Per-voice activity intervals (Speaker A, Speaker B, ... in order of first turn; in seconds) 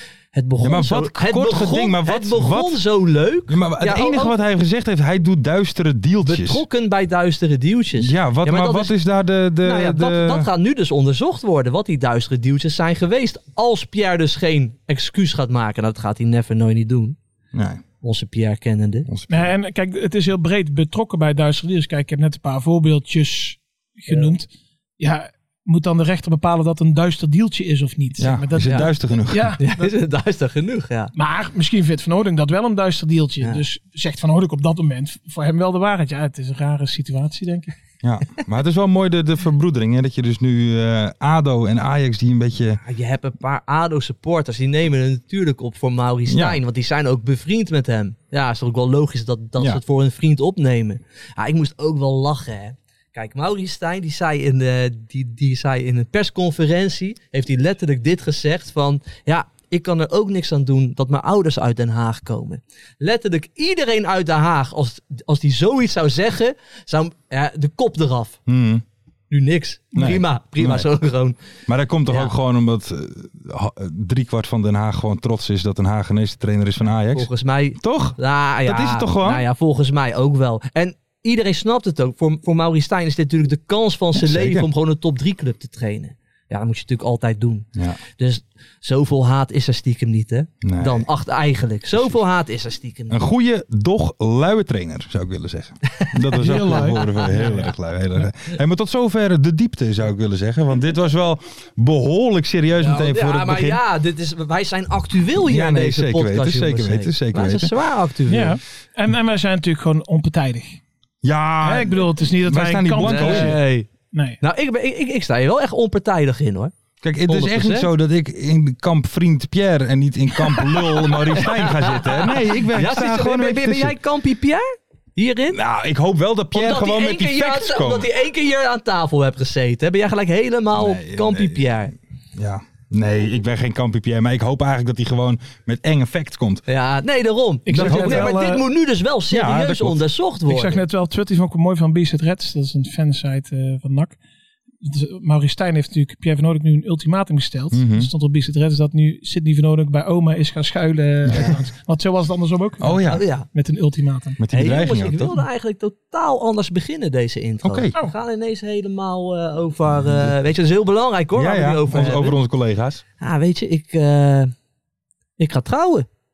Speaker A: 0.3-4.3, 6.2-8.9, 9.6-17.2, 18.0-19.1, 24.1-24.3, 29.6-31.1, 42.8-68.4, 69.3-71.4, 72.1-72.3, 77.1-93.2, 96.0-97.5, 102.8-108.6, 113.0-113.9, 114.4-116.7, 117.2-117.9, 120.5-125.6, 126.5-131.9, 136.7-140.8, 153.1-153.5, 154.5-162.4, 163.2-164.5, 165.4-166.1
Speaker B: 0.6-2.8, 3.5-6.6, 8.0-10.5, 17.5-17.8, 19.1-19.5, 28.2-29.6, 38.0-42.8, 46.3-46.6, 68.5-68.8, 69.9-70.9, 71.7-79.4, 84.1-84.7, 90.6-91.1, 93.1-103.8, 105.4-107.7, 111.2-113.6, 117.0-124.0, 125.5-128.1, 130.7-136.6, 137.7-138.3, 139.3-140.0, 147.7-148.1, 151.3-151.5, 152.8-153.2, 154.4-155.4, 157.6-157.9, 160.0-160.3, 161.3-163.0
Speaker C: 19.3-24.5, 25.0-29.9, 31.1-37.7, 96.4-97.7, 108.3-110.8, 111.6-114.4, 137.7-138.6, 140.5-144.2, 144.8-154.4